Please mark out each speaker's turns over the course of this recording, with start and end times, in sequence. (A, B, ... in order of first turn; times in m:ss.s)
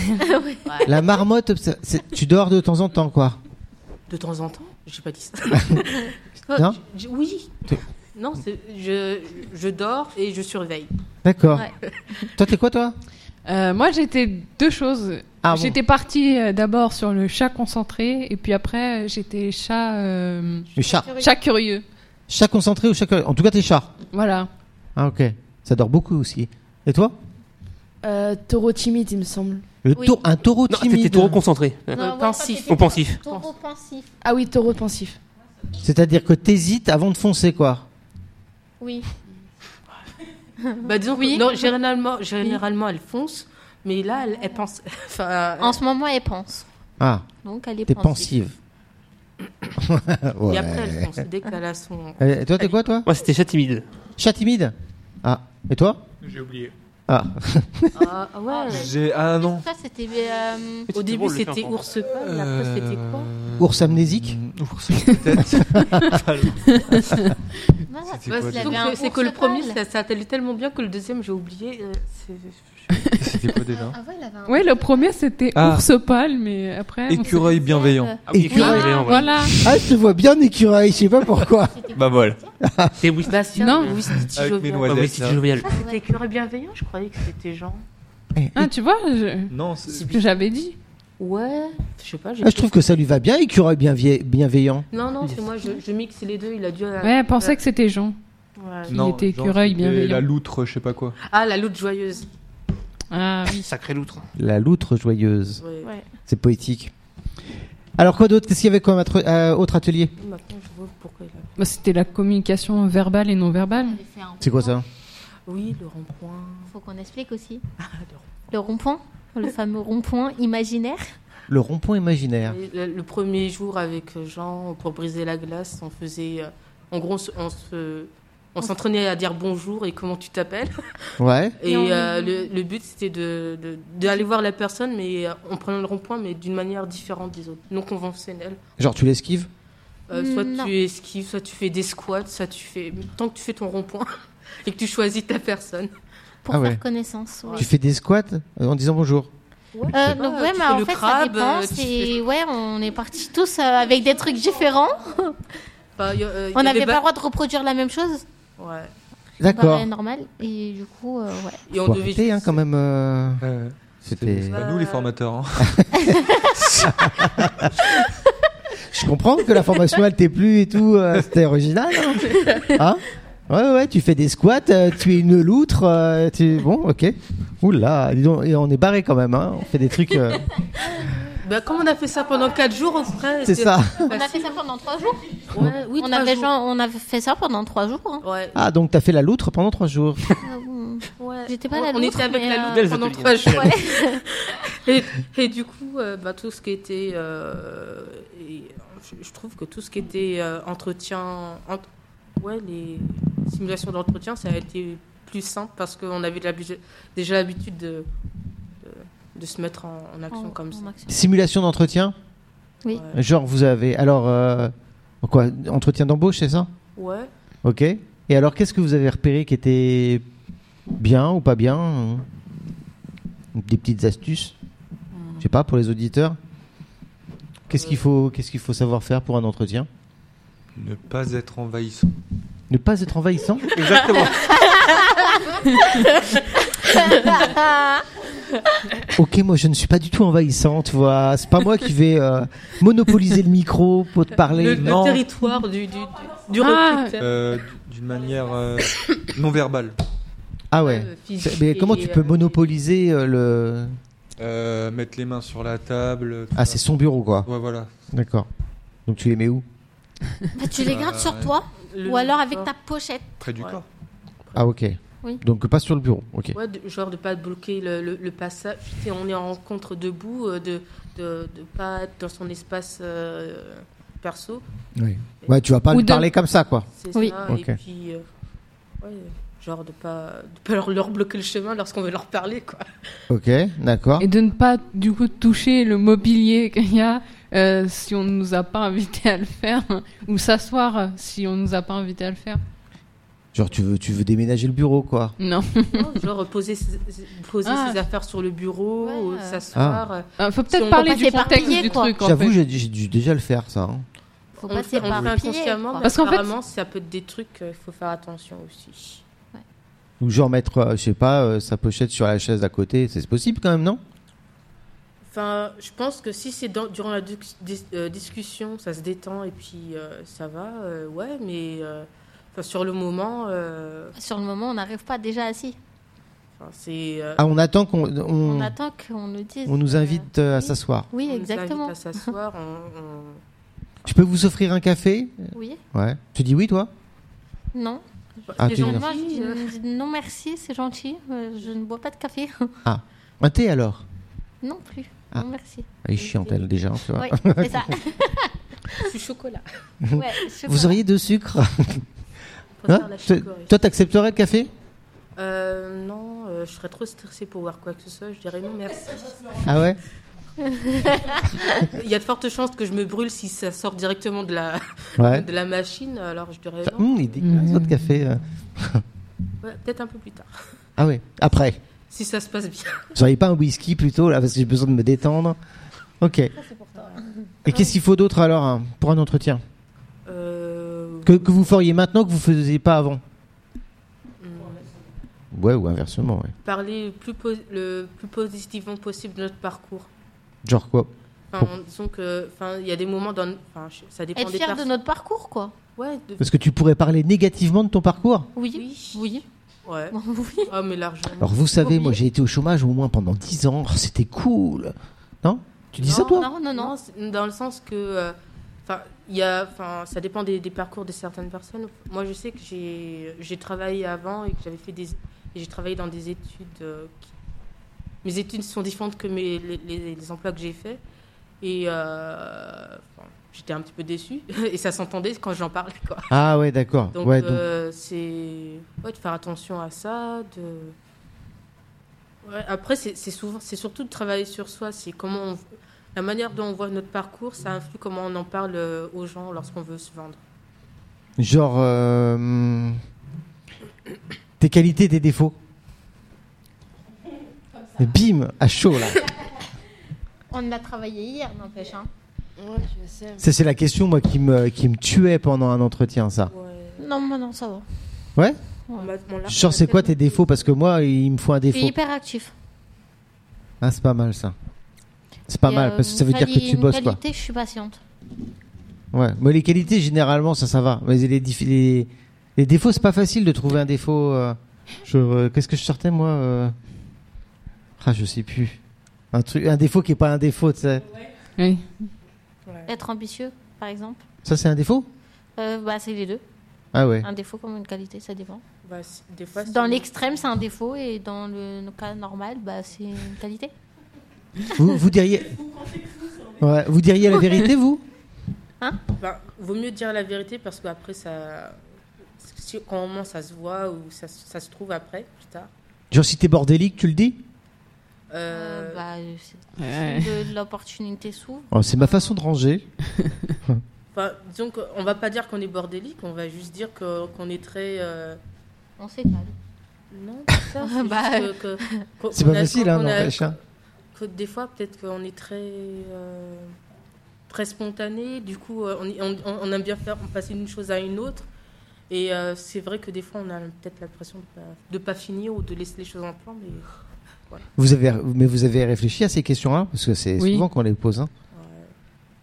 0:00.2-0:00.8 A
0:00.7-0:01.0 B
0:00.8-0:03.4 C
0:04.1-0:10.9 B
0:11.2-0:11.7 C
0:12.4-0:13.0 C
0:13.5-0:20.7 D
0:15.4-0:15.8 C
0:20.8-0:21.1 C
0:20.8-0:21.3 A
0:21.2-0:21.8 D
0:22.3-0:23.9 C
0:24.1-0:24.5 D
0:25.0-0:27.2 C
0:28.0-0:29.6 E
0:29.8-0:31.4 C
0:30.7-0:32.0 F
0:31.9-0:34.1 A
0:32.0-0:33.5 B
0:32.7-0:33.2 F
0:34.2-0:35.2 E
0:35.8-0:37.9 C
0:38.8-0:39.1 A
0:40.6-0:41.7 A
0:40.8-0:45.8 B
0:45.6-0:46.6 A
0:47.0-0:47.3 C
0:47.4-0:48.3 A
0:47.9-0:48.5 C
0:49.8-0:51.1 C
0:50.5-0:52.9 B
0:52.2-0:53.1 C
0:53.1-0:53.8 F
0:54.2-0:56.0 C
0:56.2-0:56.7 G
0:57.1-0:58.1 C
0:58.0-0:58.9 B
0:58.5-1:00.9 A
0:58.7-0:59.7 G
1:00.9-1:01.8 F
1:00.9-1:03.3 B
1:02.0-1:07.4 G
1:03.6-1:04.4 C
1:05.7-1:06.2 C
1:06.7-1:07.3 D
1:07.9-1:09.8 A
1:08.1-1:08.9 G
1:08.3-1:13.0 B
1:13.2-1:14.0 G
1:13.7-1:15.0 A
1:14.5-1:17.3 D
1:15.6-1:15.8 G
1:17.1-1:18.2 G
1:17.2-1:19.3 A
1:18.3-1:19.6 F
1:18.3-1:18.9 C
1:18.6-1:19.5 D
1:19.6-1:21.8 C
1:21.7-1:22.5 A
1:22.0-1:22.4 G
1:22.6-1:23.0 C
1:23.0-1:23.8 F
1:23.3-1:25.1 B
1:23.6-1:24.0 D
1:24.4-1:25.5 G
1:24.9-1:25.7 F
1:25.6-1:27.8 B
1:25.6-1:26.0 A
1:28.4-1:28.7 C
1:28.6-1:30.8 D
1:29.5-1:30.2 G
1:29.9-1:30.3 B
1:31.2-1:32.8 B
1:32.4-1:34.8 C
1:34.9-1:37.6 B
1:37.0-1:38.2 D
1:38.6-1:39.0 B
1:38.9-1:41.2 G
1:38.9-1:40.2 D
1:41.2-1:42.3 B
1:43.1-1:43.7 D
1:43.6-1:44.2 F
1:44.4-1:45.6 C
1:45.6-1:45.9 B
1:46.3-1:46.9 C
1:48.0-1:50.1 C
1:50.2-1:51.6 B
1:51.6-1:54.0 D
1:53.8-1:54.8 A
1:54.4-1:54.8 C
1:55.5-1:56.7 B
1:56.7-1:57.6 A
1:57.8-1:58.3 B
1:58.5-2:01.1 A
2:01.5-2:02.6 C
2:02.5-2:10.8 B
2:11.2-2:11.6 C
2:11.6-2:18.6 B
2:11.6-2:12.5 A
2:18.8-2:19.5 C
2:20.1-2:24.1 B
2:20.1-2:20.7 A
2:24.6-2:25.9 B
2:26.4-2:27.7 A
2:26.5-2:26.8 C
2:27.6-2:29.3 C
2:29.7-2:32.2 B
2:29.9-2:35.4 A
2:36.0-2:37.0 B
2:36.6-2:38.2 A
2:38.6-2:38.9 B
2:39.4-2:39.9 C
2:39.4-2:41.6 A
2:41.7-2:42.6 B
2:41.8-2:43.4 C
2:43.4-2:46.0 G
2:44.1-2:44.6 C
2:44.5-2:45.1 B
2:45.6-2:46.1 C
2:46.2-2:46.5 A
2:46.6-2:47.5 G
2:46.8-2:47.7 C
2:48.9-3:00.4 C
3:01.4-3:04.6 B
3:03.4-3:04.1 C
3:04.1-3:05.4 A
3:05.5-3:06.5 B
3:06.0-3:08.2 A
3:08.2-3:08.6 B
3:08.6-3:10.3 C
3:10.4-3:12.9 A
3:11.2-3:21.9 B
3:12.7-3:13.7 F
3:13.5-3:14.2 A
3:22.4-3:28.1 B
3:28.8-3:30.9 B
3:30.3-3:31.2 A
3:31.1-3:32.2 C
3:32.9-3:33.2 B
3:33.1-3:36.7 C
3:37.0-3:37.3 B
3:37.6-3:40.2 C
3:41.0-3:42.3 C
3:43.6-3:44.5 C
3:45.1-3:45.5 B
3:45.4-3:46.4 C
3:47.7-3:49.9 C
3:47.7-3:48.0 B
3:50.8-3:52.2 G
3:52.7-3:53.7 C
3:53.8-3:54.5 F
3:54.8-3:56.0 A
3:56.8-3:58.0 A
3:56.9-3:57.5 B
3:59.2-4:05.0 C
4:04.5-4:07.3 B
4:04.8-4:05.2 G
4:06.6-4:07.2 D
4:07.2-4:10.0 G
4:10.7-4:14.0 C
4:10.8-4:12.6 B
4:14.4-4:16.8 G
4:16.6-4:17.5 C
4:17.4-4:17.9 G
4:18.1-4:18.5 C
4:19.1-4:19.6 C
4:20.6-4:23.3 A
4:20.7-4:21.5 G
4:21.9-4:22.7 B
4:23.4-4:23.8 G
4:24.6-4:26.6 C
4:26.6-4:34.6 B
4:35.0-4:36.9 C
4:35.9-4:36.3 D
4:37.0-4:38.2 B
4:37.5-4:37.8 C
4:39.0-4:42.9 B
4:43.3-4:44.3 C
4:44.2-4:52.6 D
4:53.5-4:55.4 C
4:55.4-4:56.1 D
4:55.9-5:02.0 B
4:57.6-4:58.0 D
4:59.0-4:59.6 A
4:59.8-5:00.0 C
5:00.4-5:02.6 D
5:00.9-5:02.2 A
5:02.2-5:04.1 C
5:04.6-5:06.0 A
5:04.6-5:09.2 B
5:06.0-5:06.5 D
5:10.2-5:14.0 C
5:15.3-5:24.1 B
5:24.2-5:25.8 A
5:26.6-5:27.4 B
5:27.4-5:28.7 C
5:28.4-5:30.3 A
5:29.7-5:31.1 C
5:31.1-5:32.0 A
5:31.2-5:33.4 B
5:34.0-5:36.9 C
5:35.5-5:35.8 A
5:37.7-5:42.8 A
5:38.5-5:39.7 B
5:38.6-5:39.1 C
5:42.8-5:44.0 C
5:44.6-5:45.9 A
5:46.0-5:47.9 C
5:46.2-5:46.7 B
5:47.2-5:49.1 A
5:49.0-5:49.6 B
5:50.0-5:52.0 C
5:50.1-5:51.0 A
5:52.8-5:53.8 B
5:52.9-5:54.7 C
5:55.4-5:59.7 B
5:59.6-6:00.0 C
6:00.6-6:01.6 A
6:01.6-6:07.2 B
6:05.2-6:05.5 C
6:06.9-6:09.0 C
6:07.4-6:08.0 D
6:09.6-6:10.7 B
6:11.0-6:11.8 C
6:12.1-6:13.1 B
6:13.2-6:15.6 C
6:16.2-6:16.5 C
6:16.7-6:17.3 A
6:17.0-6:17.2 B
6:17.7-6:19.6 C
6:20.3-6:21.5 B
6:21.2-6:23.2 C
6:24.4-6:24.9 B
6:25.5-6:26.5 C
6:26.6-6:30.1 B
6:30.6-6:31.7 C
6:31.5-6:34.9 B
6:34.4-6:35.8 A
6:36.0-6:36.4 B
6:36.4-6:38.5 C
6:38.6-6:39.4 A
6:38.7-6:39.2 B
6:39.8-6:42.2 B
6:40.1-6:40.7 A
6:41.4-6:46.5 C
6:46.0-6:57.3 B
6:46.1-6:46.9 A
6:58.2-7:01.0 B
7:01.6-7:06.3 B
7:06.3-7:07.6 C
7:07.2-7:11.0 B
7:12.4-7:20.4 B
7:21.4-7:23.0 C
7:24.6-7:25.6 C
7:28.0-7:29.3 C
7:30.5-7:32.1 A
7:32.6-7:33.4 E
7:33.4-7:36.5 C
7:36.5-7:37.0 B
7:37.0-7:37.9 A
7:39.0-7:40.6 B
7:39.5-7:41.9 C
7:41.7-7:42.5 A
7:43.8-7:44.6 C
7:45.5-7:47.2 C
7:45.6-7:48.0 A
7:49.1-7:56.7 C
7:58.0-7:58.8 C
7:59.3-8:01.1 C
8:01.6-8:01.9 D
8:02.9-8:04.2 A
8:04.4-8:05.1 C
8:05.6-8:06.4 A
8:06.9-8:07.3 C
8:07.2-8:08.6 A
8:08.8-8:10.4 B
8:09.6-8:13.7 A
8:14.8-8:15.7 C
8:16.5-8:18.0 C
8:19.2-8:21.8 B
8:22.4-8:25.7 B
8:26.1-8:27.4 C
8:28.3-8:29.0 B
8:28.5-8:32.2 A
8:29.8-8:30.3 D
8:31.7-8:32.9 C
8:34.1-8:38.4 B
8:39.0-8:39.6 A
8:40.1-8:43.6 B
8:40.8-8:42.1 A
8:42.3-8:43.6 C
8:44.1-8:46.8 B
8:47.5-8:51.5 B
8:52.1-8:56.9 B
8:57.8-9:01.3 C
9:00.4-9:00.7 D
9:01.5-9:01.9 B